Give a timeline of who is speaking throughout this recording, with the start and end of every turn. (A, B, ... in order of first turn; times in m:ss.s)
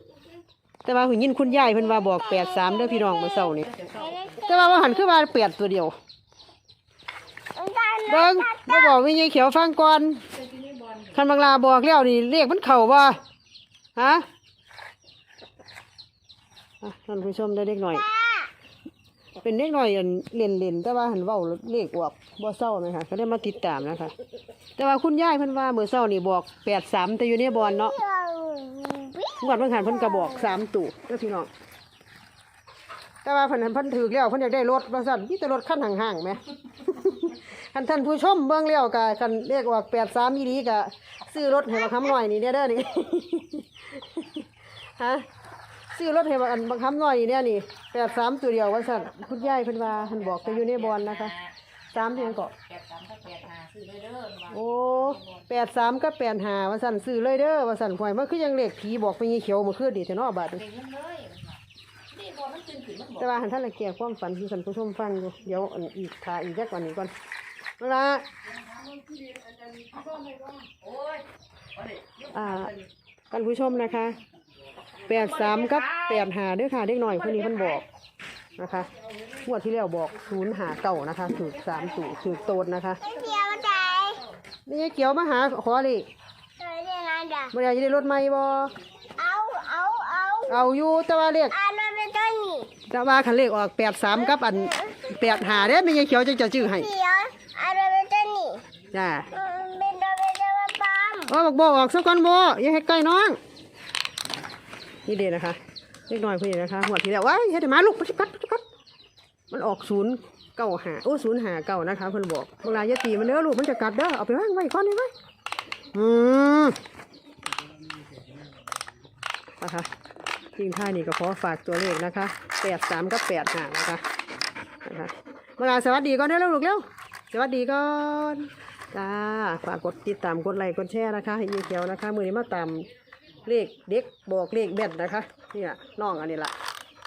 0:00.8-0:03.7 A
0:01.5-0:05.0 B
0:03.6-0:04.4 C
0:04.4-0:06.0 A
0:07.5-0:09.0 B
0:08.1-0:10.2 A
0:10.3-0:11.2 C
0:11.1-0:13.2 A
0:14.0-0:14.2 A
0:16.8-0:18.0 A
0:17.9-0:18.5 B
0:19.4-0:24.1 A
0:24.8-0:28.0 A
0:27.5-0:30.6 B
0:29.4-0:31.5 A
0:33.2-0:44.2 A
0:45.0-0:45.3 A
0:45.9-0:51.3 A
0:48.9-0:55.5 C
0:51.9-0:52.5 A
0:54.5-1:00.6 A
1:00.5-1:03.4 C
1:03.2-1:07.1 A
1:07.8-1:08.2 A
1:09.2-1:11.2 C
1:11.8-1:12.9 C
1:12.3-1:12.7 A
1:13.3-1:14.2 A
1:15.1-1:17.8 A
1:15.1-1:16.3 C
1:17.0-1:17.8 C
1:18.6-1:18.9 A
1:19.4-1:23.0 A
1:21.5-1:22.4 C
1:23.0-1:24.2 B
1:23.1-1:24.3 C
1:24.7-1:26.1 A
1:26.6-1:27.5 B
1:27.5-1:28.7 A
1:29.2-1:30.7 B
1:30.5-1:31.5 A
1:31.5-1:32.7 B
1:32.9-1:36.9 A
1:34.1-1:35.8 B
1:36.5-1:38.6 B
1:38.9-1:39.3 A
1:39.3-1:41.3 B
1:41.3-1:43.4 A
1:45.1-1:48.6 A
1:49.5-1:55.1 A
1:55.9-1:56.8 A
1:59.6-1:59.9 A
2:00.6-2:04.0 A
2:04.8-2:12.9 A
2:13.4-2:16.5 A